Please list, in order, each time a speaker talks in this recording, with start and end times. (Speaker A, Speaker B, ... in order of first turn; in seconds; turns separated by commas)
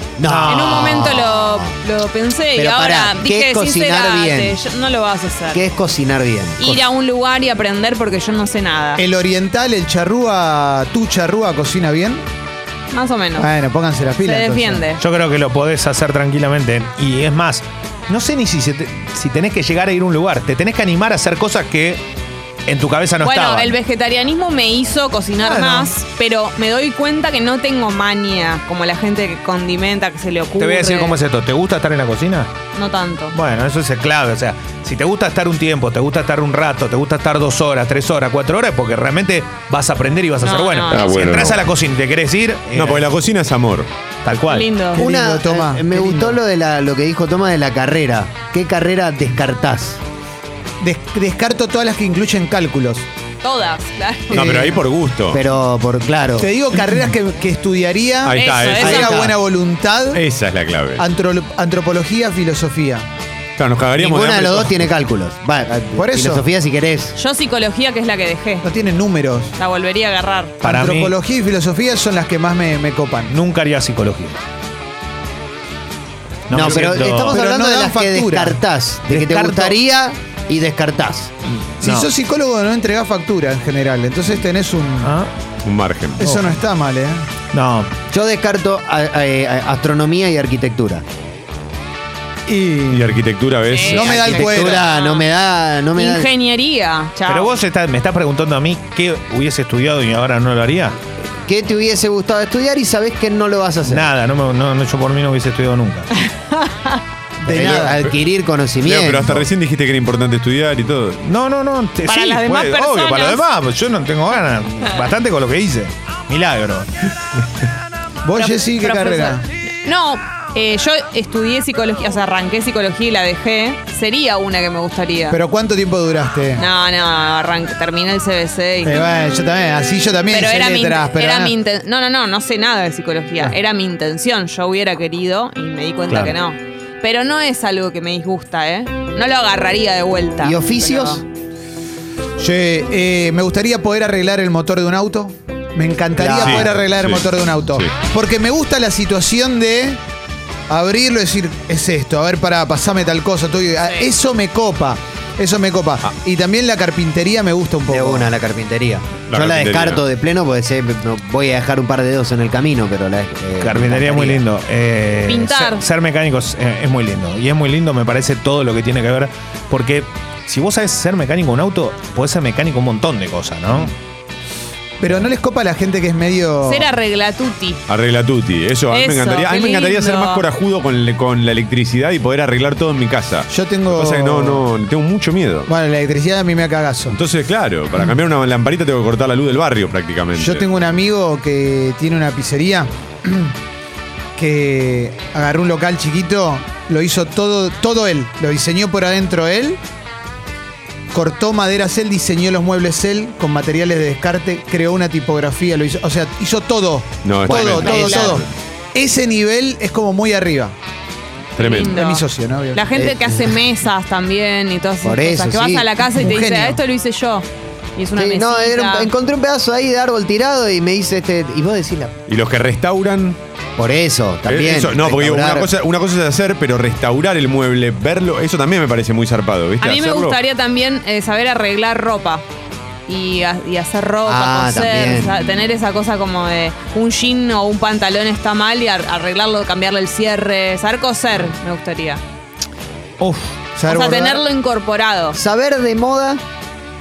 Speaker A: 0.2-1.7, Speaker B: 0.2-0.9, Speaker C: 0.5-5.6, Speaker A: 2.5-4.6, Speaker A: 5.5-6.8, Speaker C: 6.6-9.0, Speaker D: 9.0-12.2, Speaker C: 12.9-13.5, Speaker D: 13.4-14.8, Speaker C: 14.2-15.0, Speaker B: 15.0-22.0, Speaker B: 22.6-23.8, Speaker C: 23.2-31.1, Speaker B: 25.4-25.9, Speaker B: 30.6-32.5, Speaker C: 32.7-33.3, Speaker B: 33.3-43.1, Speaker C: 40.4-41.3, Speaker E: 41.0-41.5, Speaker E: 42.7-43.9, Speaker B: 44.2-44.7, Speaker C: 44.5-45.0, Speaker D: 44.9-46.4, Speaker A: 45.0-50.0, Speaker D: 50.8-53.0, Speaker C: 53.4-54.4, Speaker E: 54.3-55.4, Speaker D: 54.3-54.8, Speaker A: 55.3-56.5, Speaker D: 56.4-60.2, Speaker E: 58.2-59.1, Speaker C: 58.3-59.1, Speaker A: 58.8-59.4, Speaker E: 60.1-61.0, Speaker D: 61.0-63.0, Speaker E: 63.6-64.8, Speaker A: 64.0-67.2, Speaker D: 65.9-66.4, Speaker C: 67.2-68.7, Speaker D: 68.6-69.5, Speaker C: 69.6-70.6, Speaker B: 70.6-71.1, Speaker D: 70.6-73.3, Speaker B: 73.3-74.4, Speaker B: 76.5-77.4, Speaker A: 76.5-81.3, Speaker D: 76.5-78.6, Speaker B: 79.1-79.8, Speaker B: 81.8-82.1, Speaker D: 81.8-85.1, Speaker B: 85.0-85.3, Speaker E: 85.6-86.3, Speaker D: 86.2-87.3, Speaker B: 87.5-87.9, Speaker A: 88.1-91.0, Speaker D: 92.5-93.2, Speaker E: 92.9-94.3, Speaker C: 93.7-95.3, Speaker D: 93.8-94.8, Speaker A: 94.0-96.3, Speaker C: 95.9-97.5, Speaker B: 97.3-101.0, Speaker A: 101.2-104.1, Speaker B: 103.8-106.1, Speaker C: 106.2-107.0, Speaker A: 107.4-109.5, Speaker D: 107.5-107.9, Speaker E: 107.6-108.1, Speaker E: 108.8-111.2, Speaker B: 111.2-116.9, Speaker C: 112.0-113.5, Speaker D: 118.2-119.4, Speaker C: 118.3-125.4, Speaker D: 125.3-126.6, Speaker C: 126.6-129.1, Speaker D: 128.8-131.5, Speaker C: 130.3-141.2, Speaker B: 136.1-136.3, Speaker A: 140.4-141.2, Speaker D: 142.4-150.0, Speaker A: 146.2-146.7, Speaker E: 146.3-147.9, Speaker D: 150.7-158.3, Speaker C: 153.8-154.1, Speaker A: 157.9-164.4, Speaker E: 159.3-160.0, Speaker B: 163.6-173.9, Speaker C: 165.2-165.8, Speaker D: 175.0-176.9, Speaker C: 176.6-177.8, Speaker E: 177.9-185.7, Speaker C: 178.9-180.4, Speaker D: 183.5-184.7, Speaker D: 185.7-187.2, Speaker E: 187.1-190.7, Speaker D: 190.4-193.5, Speaker D: 194.3-199.8, Speaker D: 201.1-210.7, Speaker E: 207.2-208.5, Speaker C: 207.5-208.4, Speaker E: 211.6-211.9, Speaker C: 211.6-217.4, Speaker D: 211.6-212.9, Speaker A: 212.9-213.6, Speaker A: 215.0-215.9, Speaker D: 216.1-216.8, Speaker C: 218.0-219.1, Speaker A: 218.2-222.2, Speaker E: 222.3-223.4, Speaker A: 223.8-225.7, Speaker E: 224.5-230.4, Speaker C: 229.8-232.4, Speaker C: 233.1-242.2, Speaker A: 234.2-235.4, Speaker B: 243.2-243.5, Speaker D: 243.8-244.4, Speaker C: 243.9-245.4, Speaker A: 245.3-246.4